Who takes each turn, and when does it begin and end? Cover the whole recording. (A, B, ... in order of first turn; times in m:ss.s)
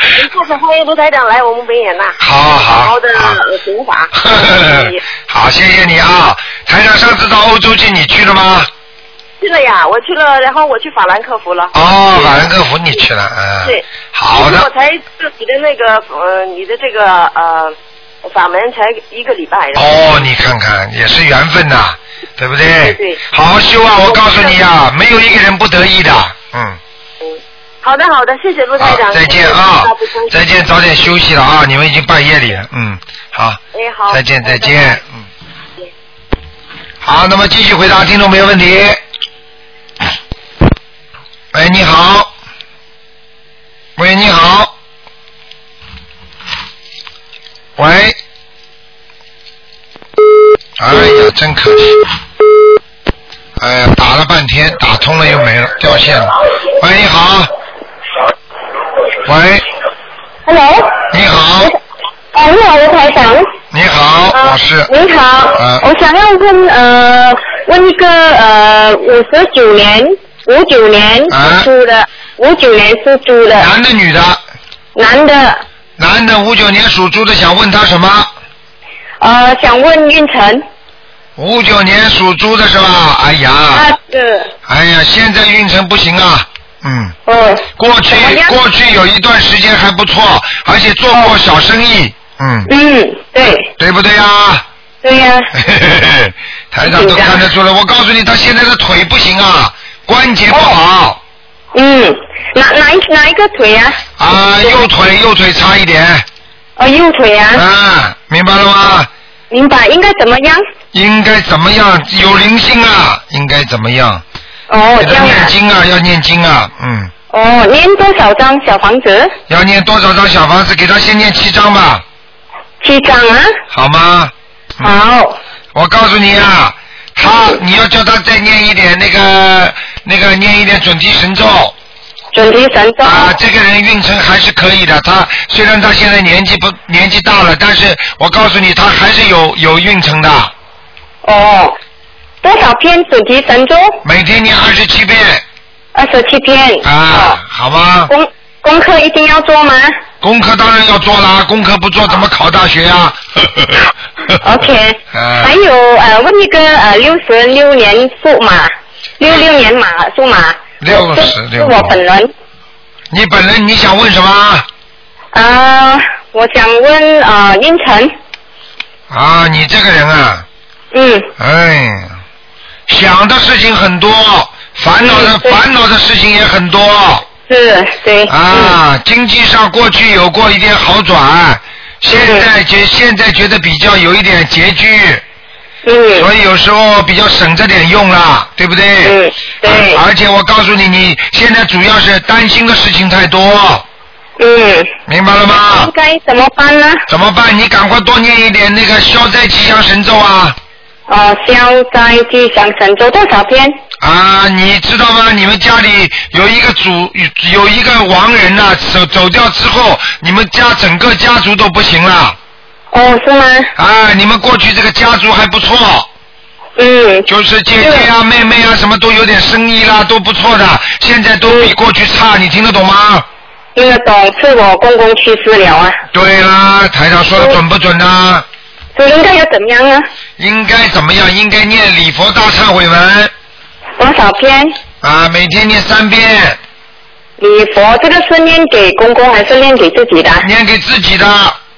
0:00.1-0:05.0 A
0:02.2-0:03.4 B
0:04.2-0:08.7 B
0:09.4-0:12.5 A
0:11.7-0:14.7 B
0:13.6-0:20.3 A
0:19.7-0:26.8 B
0:22.8-0:23.2 A
0:24.0-0:24.6 A
0:27.2-0:30.4 A
0:28.8-0:35.2 B
0:33.7-0:35.0 A
0:37.0-0:39.0 B
0:41.5-0:42.3 B
0:44.0-0:44.7 B
0:47.8-0:48.2 B
0:50.8-0:52.0 B
0:53.6-0:57.5 B
0:59.2-0:59.7 B
1:00.4-1:01.0 C
1:01.1-1:01.7 B
1:02.3-1:03.5 C
1:03.7-1:04.9 B
1:04.3-1:13.7 C
1:05.5-1:05.8 B
1:11.3-1:11.7 B
1:13.6-1:14.4 B
1:14.9-1:15.6 C
1:16.0-1:18.3 B
1:19.2-1:20.6 C
1:21.4-1:23.9 B
1:23.7-1:24.5 C
1:24.7-1:27.1 B
1:27.2-1:28.6 C
1:27.8-1:32.7 B
1:32.7-1:33.7 C
1:33.8-1:34.6 B
1:35.0-1:35.5 C
1:35.5-1:41.2 B
1:36.8-1:37.4 C
1:40.5-1:40.8 C
1:41.7-1:44.0 C
1:44.2-1:46.2 B
1:46.8-1:47.6 C
1:47.5-1:49.1 B
1:49.5-1:50.6 C
1:50.9-1:54.2 B
1:54.7-1:55.5 C
1:55.0-1:57.1 B
1:57.3-1:59.4 C
1:59.5-2:02.0 B
2:02.8-2:03.5 C
2:03.7-2:04.9 B
2:04.8-2:05.4 C
2:05.7-2:11.7 B
2:12.3-2:13.3 C
2:13.0-2:20.5 B
2:21.2-2:21.8 C
2:22.4-2:24.0 C
2:24.0-2:25.4 B
2:25.9-2:27.4 C
2:26.8-2:28.1 B
2:28.1-2:29.9 C
2:30.2-2:33.9 B
2:34.4-2:42.3 C
2:35.1-2:35.6 B
2:40.8-2:42.0 B
2:43.1-2:44.7 B
2:45.3-2:48.1 C
2:49.1-2:50.4 B
2:50.9-2:51.3 C
2:51.4-2:52.2 B
2:52.9-2:57.2 B
2:55.0-2:55.6 C
2:57.5-2:58.8 C
2:58.3-3:05.2 B
3:02.1-3:02.5 C
3:05.8-3:06.3 C
3:06.1-3:13.8 B
3:09.0-3:10.0 C
3:14.4-3:14.9 C
3:15.1-3:15.9 B
3:15.6-3:17.0 C
3:17.1-3:20.6 B
3:21.1-3:23.8 C
3:24.0-3:32.4 B
3:32.9-3:33.7 C
3:33.8-3:36.1 B
3:36.8-3:37.3 C
3:37.3-3:43.2 B
3:37.8-3:38.1 C
3:41.4-3:41.7 C
3:43.8-3:46.0 C
3:46.1-3:48.4 B
3:49.0-3:50.0 C
3:50.4-3:53.3 B
3:54.0-3:54.8 C
3:55.0-3:56.6 B
3:57.4-4:00.5 C
4:00.4-4:01.6 B